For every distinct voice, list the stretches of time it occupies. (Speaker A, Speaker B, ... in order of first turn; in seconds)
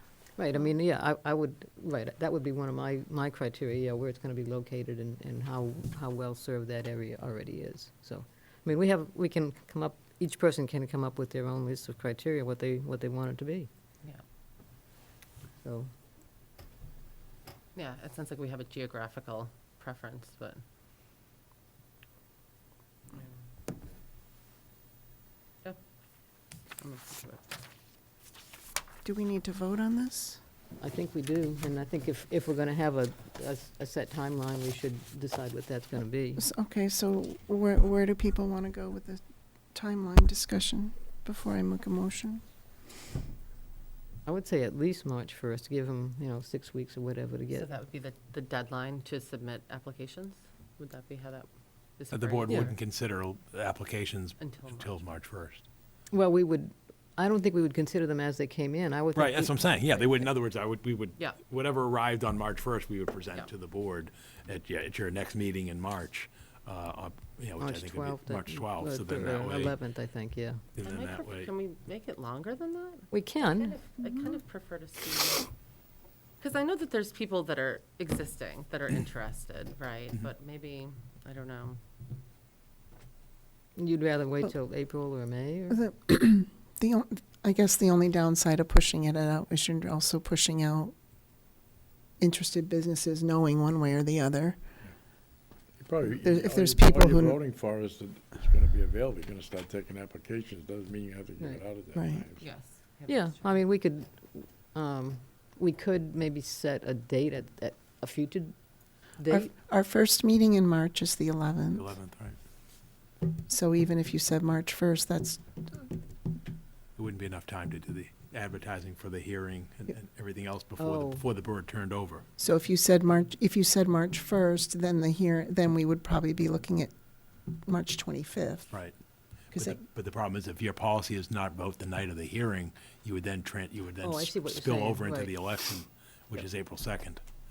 Speaker A: 0.4-13.7, 15.6-15.9, 30.8-36.4, 44.3-47.7, 56.1-60.3, 67.6-70.6, 73.1-73.8, 83.8-85.9, 103.1-108.5, 109.2-109.5, 120.8-121.3, 134.0-135.3
Speaker B: 17.8-20.6, 23.1-23.4, 26.8-27.5, 47.5-52.8, 54.4-55.0, 70.8-75.5, 76.4-81.8, 102.4-103.6
Speaker C: 29.0-30.4, 36.4-39.2, 39.7-42.4, 85.7-90.9, 92.2-94.6, 96.2-97.4, 101.9-102.2, 109.3-111.9, 113.5-115.5, 122.4-126.9, 127.7-128.8, 129.5-129.8
Speaker D: 52.1-55.6, 59.1-69.8, 70.8-71.5, 111.8-112.4, 117.0-122.2, 129.5-137.2
Speaker E: 95.8-102.5